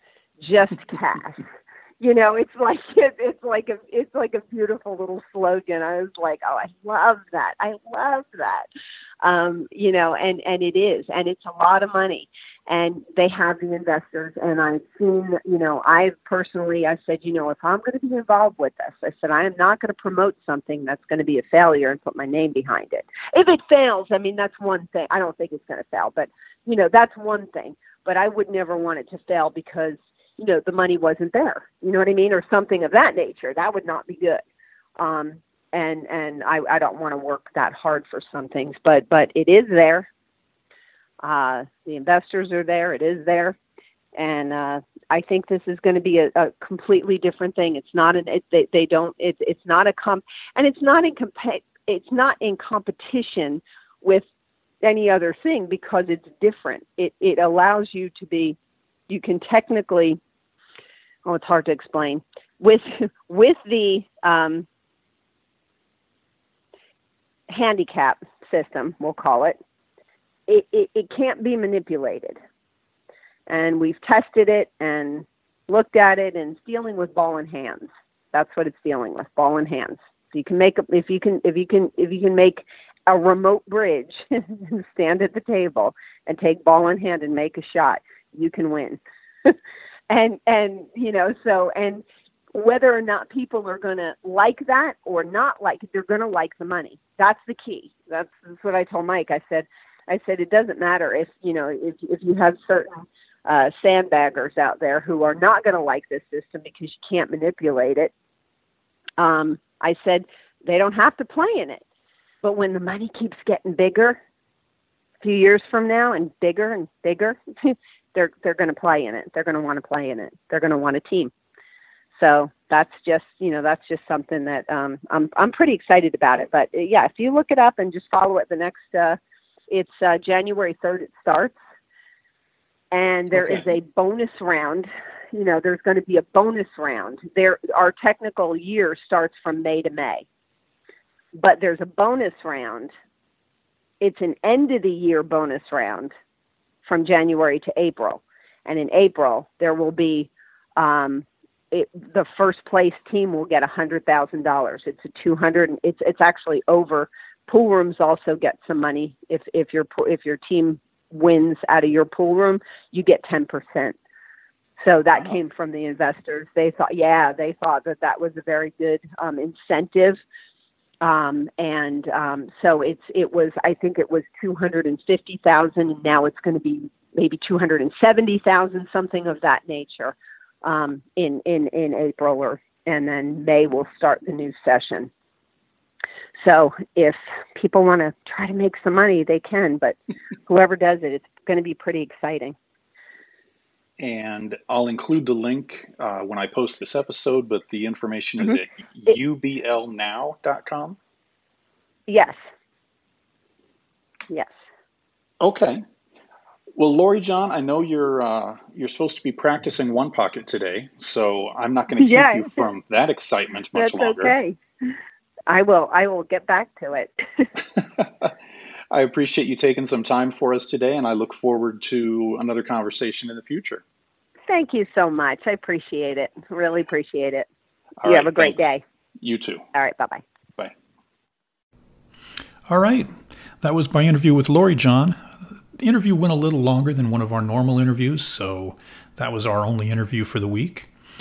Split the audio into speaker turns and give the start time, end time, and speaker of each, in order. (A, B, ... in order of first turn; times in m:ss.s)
0:00.4-0:08.7 A
0:09.2-0:34.4 A
0:35.0-0:40.1 A
0:41.2-0:43.6 A
0:44.1-0:54.3 A
0:54.8-0:58.6 A
0:59.1-1:00.2 A
1:01.2-1:04.7 A
1:07.5-1:09.6 A
1:10.5-1:12.4 A
1:13.5-1:29.6 A
1:30.1-1:48.1 A
1:49.2-1:51.8 A
1:52.4-1:54.2 A
1:55.2-2:01.3 A
2:02.1-2:09.2 A
2:09.7-2:11.6 A
2:12.9-2:20.3 A
2:13.3-2:13.6 B
2:21.3-2:22.9 A
2:24.0-2:26.1 A
2:26.8-2:44.0 A
2:44.8-2:50.2 A
2:51.0-3:05.1 A
3:06.4-3:10.0 A
3:10.5-3:12.6 A
3:14.0-3:21.0 B
3:22.1-3:22.4 A
3:25.4-3:25.8 B
3:26.8-3:34.3 B
3:32.0-3:32.6 A
3:33.7-3:35.0 A
3:35.5-3:37.5 A
3:37.8-3:38.3 B
3:38.9-3:43.8 B
3:44.5-3:47.4 A
3:48.0-3:49.6 B
3:48.0-3:48.8 A
3:49.7-3:50.2 A
3:52.7-4:00.9 B